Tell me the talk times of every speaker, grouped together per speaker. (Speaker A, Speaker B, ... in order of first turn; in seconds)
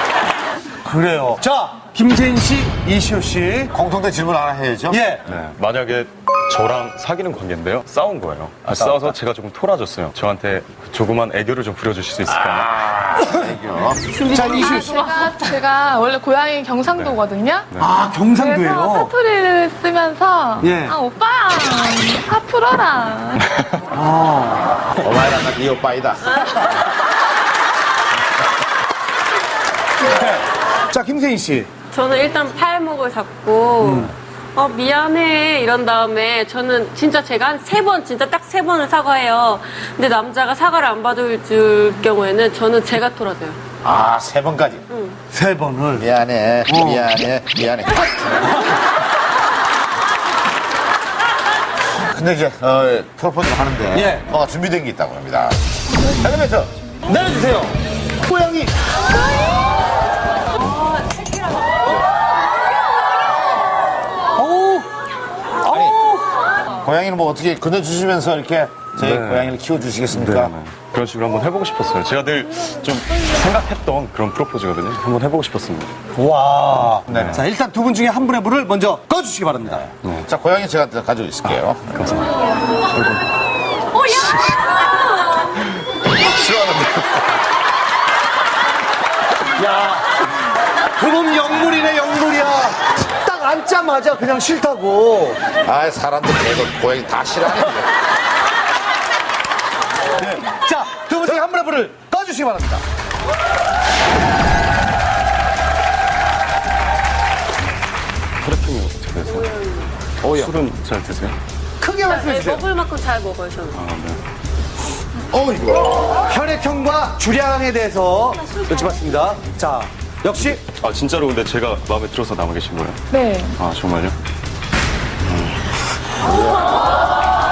Speaker A: 0.8-3.7, 4.9-5.2, 14.2-15.2, 17.7-19.1, 20.6-21.0, 23.9-24.7, 30.2-31.7, 33.8-34.1, 45.3-46.1, 46.6-47.1, 53.9-54.2, 57.0-58.7, 64.3-64.9, 65.6-66.2, 76.1-79.8, 89.5-90.0, 91.0-95.4, 100.2-102.8, 111.8-112.7, 116.3-120.6
Speaker B: 3.7-5.0, 12.3-14.0, 24.9-26.2, 43.8-44.8, 46.0-48.1, 51.9-56.7, 65.7-66.0, 66.8-70.5, 77.1-77.4, 79.8-82.0, 86.2-87.3, 95.6-97.9, 110.2-110.5, 115.2-116.2
Speaker C: 5.2-12.7, 69.0-69.6, 70.1-75.9, 77.1-77.4, 81.4-83.2, 84.0-84.5, 108.4-109.5, 110.2-111.4, 113.7-114.2, 120.6-123.0, 123.6-124.2, 125.2-125.5
Speaker D: 14.1-14.9, 26.2-26.8, 31.9-43.6, 44.9-45.2, 109.2-109.9, 112.0-113.8
Speaker E: 14.3-17.7, 18.3-23.4, 123.1-123.5